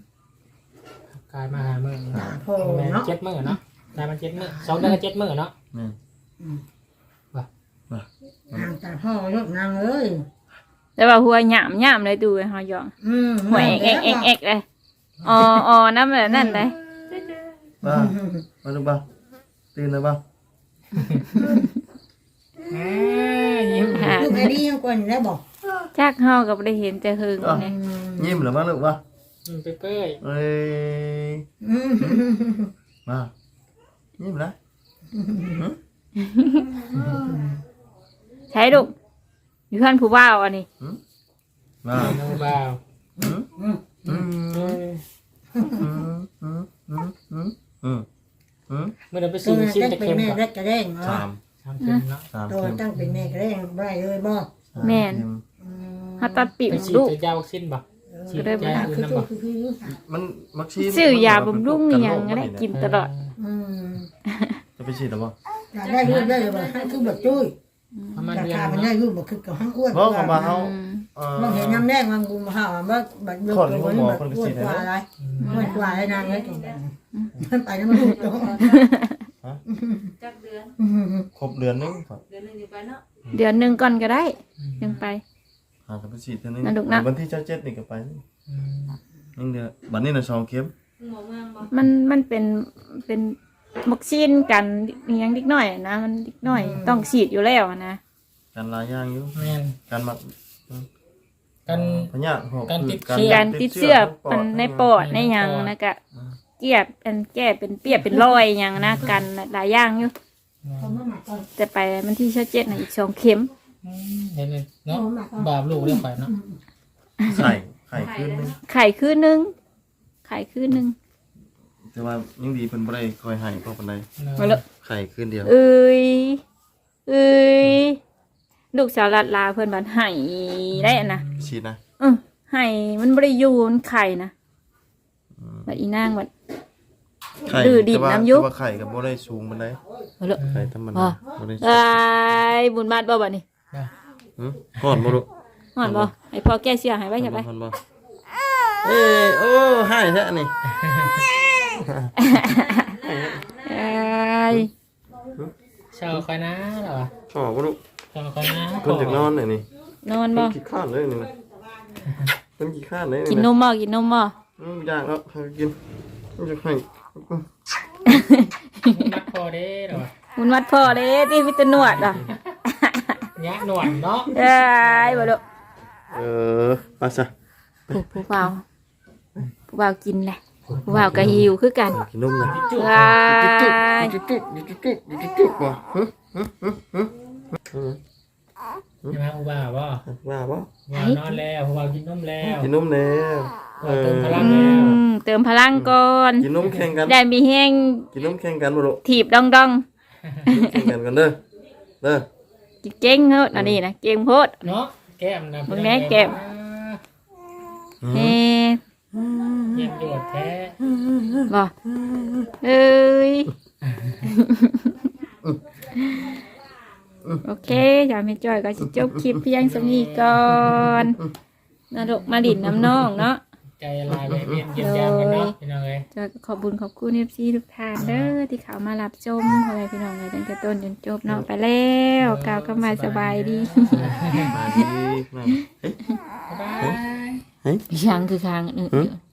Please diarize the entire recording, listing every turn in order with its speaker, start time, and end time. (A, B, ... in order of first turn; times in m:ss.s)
0:01.1-0:05.5 A
0:02.1-0:03.6 B
0:04.6-0:04.9 B
0:07.9-0:08.7 C
0:08.5-0:10.2 B
0:11.0-0:12.9 D
0:13.0-0:14.3 B
0:13.5-0:14.6 D
0:15.2-0:15.6 A
0:15.2-0:16.8 D
0:16.3-0:16.6 B
0:17.8-0:18.5 B
0:17.8-0:19.0 C
0:19.7-0:20.2 C
0:21.0-0:21.3 A
0:21.4-0:21.6 B
0:22.7-0:24.2 A
0:23.9-0:24.5 D
0:24.1-0:25.4 B
0:26.0-0:27.7 D
0:27.4-0:29.0 C
0:27.6-0:28.5 B
0:29.5-0:30.2 A
0:30.2-0:31.4 C
0:31.6-0:32.7 B
0:33.1-0:33.3 C
0:34.2-0:34.6 C
0:35.1-0:35.6 B
0:36.2-0:36.7 D
0:36.9-0:37.5 B
0:38.5-0:38.9 D
0:39.7-0:40.7 D
0:41.8-0:42.2 C
0:41.9-0:42.8 A
0:43.2-0:43.9 B
0:43.2-0:43.5 C
0:44.1-0:44.8 C
0:44.1-0:45.0 A
0:45.6-0:45.8 B
0:45.7-0:48.1 C
0:48.7-0:48.9 C
0:49.1-0:50.4 A
0:49.4-0:51.2 B
0:51.0-0:51.4 C
0:51.6-0:52.3 A
0:52.3-0:52.8 C
0:52.5-0:54.5 B
0:53.0-0:53.3 A
0:54.7-0:55.4 C
0:54.8-0:55.3 D
0:55.6-0:56.5 B
0:56.2-0:57.2 D
0:56.7-0:59.3 A
0:58.1-1:00.0 B
0:58.3-0:58.9 D
0:59.9-1:02.7 C
1:00.8-1:03.1 D
1:02.7-1:03.3 A
1:03.4-1:04.1 B
1:04.3-1:04.6 D
1:04.8-1:05.4 C
1:05.7-1:07.6 B
1:05.8-1:07.4 E
1:06.0-1:06.3 A
1:07.9-1:08.4 D
1:08.1-1:08.9 A
1:08.3-1:10.5 B
1:09.9-1:11.9 C
1:10.3-1:11.1 D
1:11.4-1:18.8 B
1:13.5-1:14.9 C
1:15.2-1:15.6 A
1:15.4-1:16.0 D
1:15.5-1:16.8 E
1:17.9-1:18.9 E
1:18.6-1:19.2 D
1:19.7-1:20.1 B
1:20.2-1:20.8 E
1:20.8-1:21.3 B
1:21.4-1:22.2 C
1:22.3-1:23.0 E
1:23.3-1:25.2 D
1:24.6-1:24.9 A
1:25.9-1:28.2 C
1:26.6-1:27.1 D
1:28.5-1:29.0 A
1:29.4-1:30.7 C
1:31.0-1:31.7 E
1:31.7-1:38.0 D
1:36.5-1:37.1 B
1:38.5-1:40.9 C
1:39.4-1:39.8 A
1:41.7-1:42.1 A
1:41.7-1:44.9 C
1:42.7-1:43.5 A
1:43.2-1:46.0 D
1:45.0-1:45.7 A
1:46.6-1:50.1 D
1:48.8-1:49.2 A
1:50.6-1:51.0 A
1:50.8-1:51.5 B
1:51.6-1:53.5 D
1:53.8-1:56.3 A
1:54.9-1:56.6 B
1:57.2-1:57.6 D
1:57.3-1:58.6 C
1:58.0-1:58.5 E
1:58.6-1:59.5 D
2:00.2-2:01.0 D
2:01.9-2:04.1 C
2:04.2-2:04.6 A
2:04.8-2:05.5 C
2:05.4-2:06.4 D
2:07.1-2:08.0 D
2:08.7-2:11.2 D
2:10.7-2:11.5 A
2:11.4-2:11.8 C
2:12.0-2:14.3 D
2:15.4-2:15.7 C
2:15.7-2:16.3 D
2:17.4-2:19.8 C
2:17.5-2:18.5 D
2:20.4-2:20.7 A
2:20.5-2:22.0 C
2:20.9-2:23.4 D
2:24.4-2:25.3 C
2:24.8-2:25.1 A
2:25.8-2:27.5 D
2:25.8-2:26.1 C
2:27.2-2:27.8 C
2:28.8-2:30.5 C
2:30.8-2:31.2 A
2:31.8-2:32.1 C
2:32.2-2:32.8 D
2:32.6-2:34.0 E
2:33.0-2:33.4 C
2:33.6-2:34.7 D
2:35.9-2:37.1 A
2:37.3-2:37.8 C
2:38.1-2:39.3 A
2:38.8-2:39.7 C
2:40.0-2:40.6 D
2:40.4-2:41.3 C
2:42.6-2:43.5 C
2:43.3-2:44.4 D
2:44.6-2:45.8 C
2:46.4-2:47.5 C
2:48.1-2:49.0 D
2:48.9-2:50.1 A
2:50.4-2:53.2 D
2:51.8-2:52.4 A
2:53.4-2:55.3 A
2:54.3-2:55.4 D
2:56.1-2:57.3 C
2:57.9-2:58.6 D
2:59.7-3:02.0 D
3:00.7-3:01.5 A
3:01.0-3:02.6 C
3:02.4-3:03.2 A
3:02.7-3:04.2 D
3:03.2-3:07.1 C
3:07.7-3:08.0 C
3:09.1-3:10.0 A
3:10.1-3:10.7 C
3:10.9-3:12.7 A
3:10.9-3:11.4 D
3:12.5-3:15.0 C
3:13.8-3:15.0 A
3:14.3-3:16.5 D
3:15.7-3:17.2 C
3:16.6-3:17.0 A
3:17.1-3:18.1 D
3:18.1-3:19.0 C
3:19.0-3:19.8 D
3:20.5-3:21.4 C
3:20.5-3:20.8 D
3:22.0-3:22.3 C
3:22.8-3:24.7 D
3:23.5-3:23.8 C
3:24.6-3:27.0 A
3:25.7-3:26.4 D
3:28.0-3:28.4 C
3:28.1-3:28.8 D
3:29.2-3:30.0 C
3:29.7-3:30.8 A
3:30.8-3:32.5 C
3:32.6-3:33.5 D
3:33.9-3:34.2 A
3:34.2-3:35.0 D
3:36.0-3:36.3 D
3:37.4-3:41.2 D
3:39.6-3:41.0 A
3:41.9-3:43.4 D
3:43.8-3:46.1 A
3:44.1-3:44.7 C
3:44.8-3:45.6 D
3:46.1-3:54.9 D
3:48.0-3:48.4 A
3:52.2-3:54.6 A
3:53.9-3:56.0 C
3:56.5-3:57.4 A
3:57.9-3:59.2 D